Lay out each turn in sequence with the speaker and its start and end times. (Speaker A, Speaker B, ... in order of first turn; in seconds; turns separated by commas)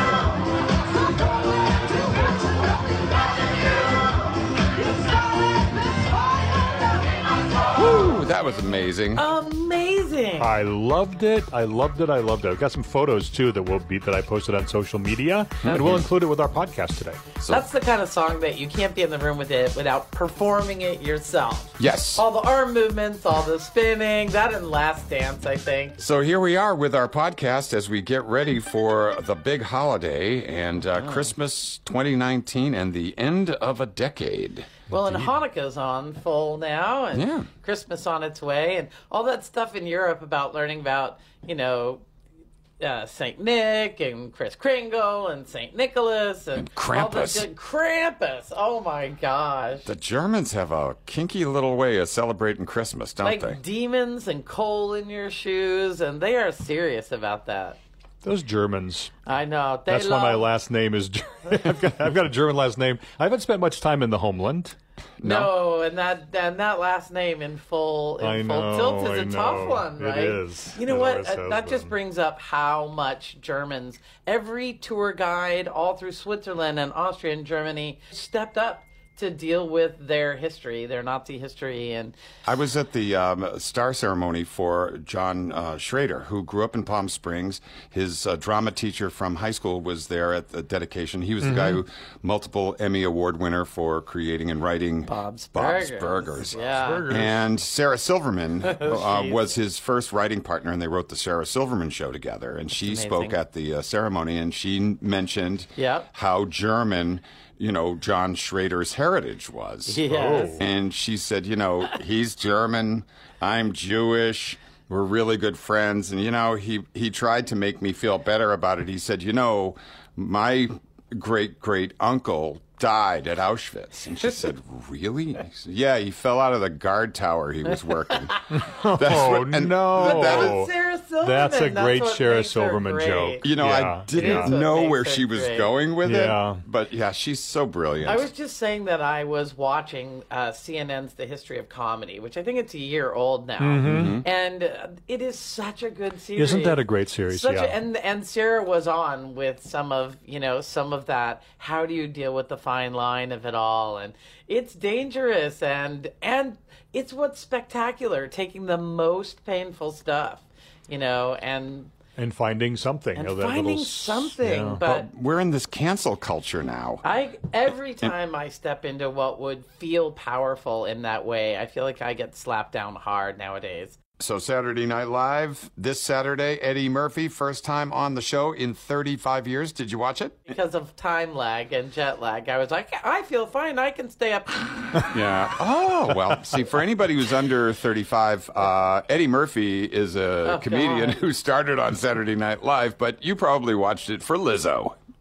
Speaker A: 7.8-9.3, Speaker B: 9.2-10.6, Speaker C: 10.4-17.2, Speaker A: 15.6-16.1, Speaker A: 17.4-17.7, Speaker B: 17.5-26.0, Speaker A: 21.8-22.2, Speaker A: 26.0-34.7, Speaker B: 31.0-31.3, Speaker B: 34.9-42.0, Speaker C: 34.9-35.3, Speaker A: 37.1-37.5, Speaker B: 42.8-49.9, Speaker A: 46.5-47.5, Speaker A: 49.9-53.6, Speaker B: 53.2-57.8, Speaker C: 58.2-59.1, Speaker B: 59.3-60.5, Speaker C: 59.9-64.8, Speaker A: 65.2-65.5, Speaker B: 65.2-82.2, Speaker C: 68.2-72.0, Speaker A: 82.5-110.0, Speaker C: 91.4-91.8, Speaker B: 95.0-97.1, Speaker C: 96.6-97.4, Speaker B: 98.6-99.5, Speaker B: 102.8-103.4, Speaker B: 105.8-106.1, Speaker B: 109.9-110.6, Speaker C: 110.1-110.6, Speaker A: 110.6-130.6, Speaker B: 128.1-128.4, Speaker C: 128.5-130.7, Speaker B: 130.0-133.4, Speaker C: 131.2-134.5, Speaker A: 133.4-138.3, Speaker B: 134.1-135.7, Speaker C: 136.0-136.6, Speaker B: 138.1-161.9, Speaker C: 143.6-144.2, Speaker A: 143.8-144.2, Speaker C: 146.3-147.8, Speaker C: 162.2-164.8, Speaker B: 163.2-165.1, Speaker A: 164.8-167.0, Speaker B: 167.0-174.0, Speaker A: 174.2-180.5, Speaker B: 180.5-185.0, Speaker A: 185.0-194.9, Speaker B: 190.4-191.2